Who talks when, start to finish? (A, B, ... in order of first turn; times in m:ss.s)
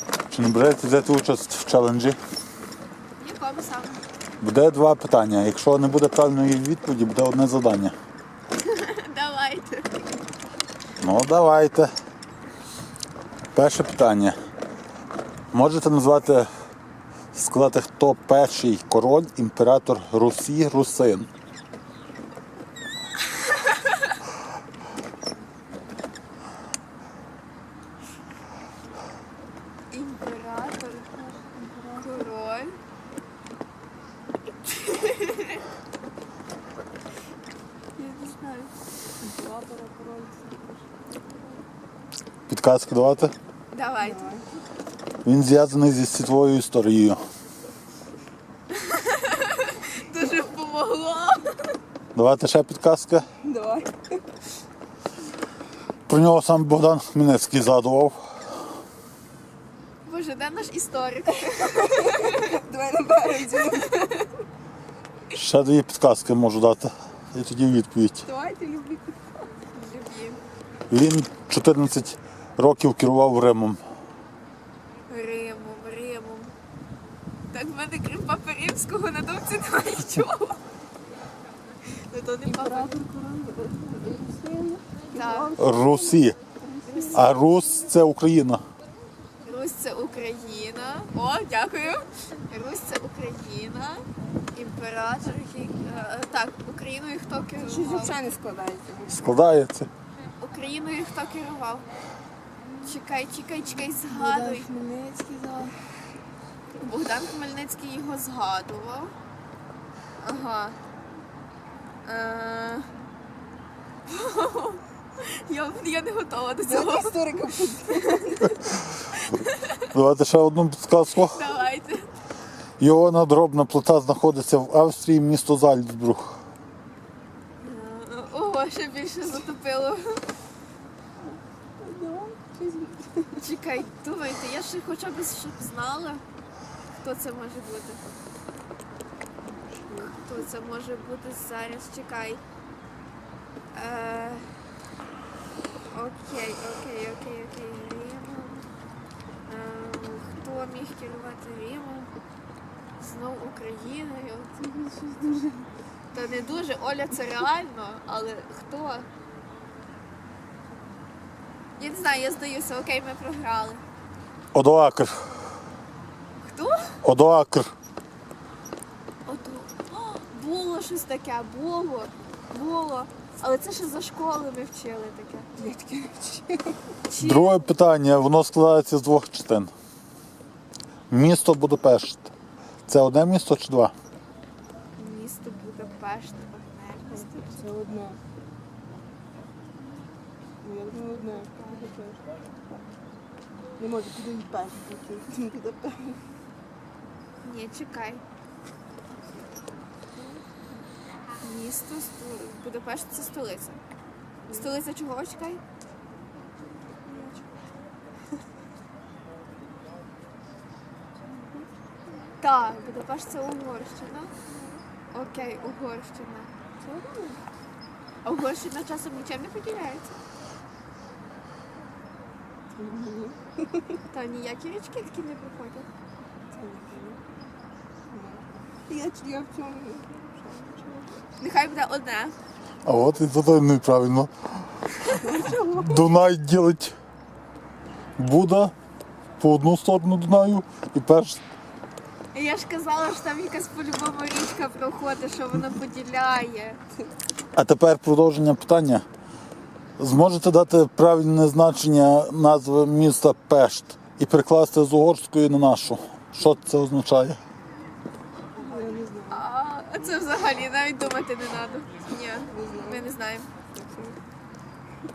0:00.3-0:02.2 A
0:03.2-0:04.0 B
0:04.4-0:07.9 A
0:08.6-0:10.0 B
0:11.0-0:11.9 A
0:13.5-0:14.4 A
0:15.5-0:16.5 A
0:17.3-0:21.3 A
0:23.6-0:23.9 B
0:29.9-0:31.3 B
0:31.3-0:32.3 C
0:32.0-0:32.8 B
0:34.7-0:35.6 B
0:38.0-0:38.7 B
0:39.2-0:40.8 C
0:42.5-0:43.3 A
0:43.7-0:44.3 B
0:44.0-0:44.4 C
0:45.2-0:47.2 A
0:48.7-0:51.7 B
0:52.1-0:53.2 A
0:53.4-0:54.2 C
0:56.1-0:58.2 A
1:00.0-1:02.6 B
1:01.6-1:04.2 C
1:05.3-1:08.2 A
1:08.2-1:09.5 C
1:09.7-1:10.4 B
1:10.9-1:13.8 A
1:15.1-1:16.5 B
1:17.5-1:20.6 B
1:22.0-1:23.0 B
1:22.4-1:27.3 C
1:25.1-1:25.5 B
1:25.6-1:26.4 A
1:26.9-1:27.3 B
1:27.1-1:28.6 A
1:29.4-1:38.2 B
1:37.6-1:39.3 C
1:39.1-1:39.9 A
1:40.4-1:41.9 B
1:42.8-1:44.7 B
1:43.9-1:45.8 C
1:46.8-1:49.1 B
1:50.2-1:50.8 B
1:52.0-1:52.9 B
1:54.1-1:57.2 B
1:56.6-1:58.7 C
1:57.9-1:59.8 B
1:59.9-2:01.4 A
2:01.1-2:02.1 B
2:02.8-2:06.4 A
2:07.6-2:10.2 B
2:11.8-2:13.4 C
2:13.4-2:16.2 B
2:17.0-2:18.1 B
2:19.4-2:20.2 C
2:20.0-2:22.4 B
2:23.7-2:24.6 B
2:25.9-2:28.7 B
2:29.4-2:32.1 B
2:33.0-2:34.7 B
2:34.8-2:35.6 C
2:36.1-2:39.1 B
2:41.8-2:43.8 B
2:44.5-2:45.3 A
2:46.4-2:46.9 B
2:47.0-2:47.7 A
2:49.2-2:55.5 B
2:55.6-2:56.8 C
2:57.0-2:57.7 B
2:57.2-2:59.7 A
3:01.1-3:02.3 A
3:02.9-3:03.9 A
3:05.0-3:07.7 B
3:07.2-3:08.2 C
3:10.6-3:12.2 C
3:11.3-3:11.8 B
3:13.8-3:16.2 C
3:17.4-3:18.2 B
3:21.4-3:23.8 B
3:24.5-3:24.7 C
3:24.5-3:25.6 B
3:27.1-3:27.5 B
3:32.4-3:34.4 B
3:35.1-3:36.5 B
3:36.8-3:37.3 C
3:38.2-3:40.2 B
3:42.8-3:44.0 C
3:44.1-3:45.9 B
3:46.5-3:47.2 C
3:48.1-3:51.1 C
3:51.4-3:52.3 B
3:52.8-3:54.3 A
3:55.1-3:56.1 C
3:55.7-3:56.9 A
3:58.2-3:58.7 A
3:59.4-4:01.4 A
4:02.3-4:06.8 B
4:07.5-4:09.0 A
4:10.0-4:17.4 A
4:18.6-4:19.4 C
4:19.3-4:23.5 B
4:22.5-4:23.1 C
4:23.7-4:24.2 C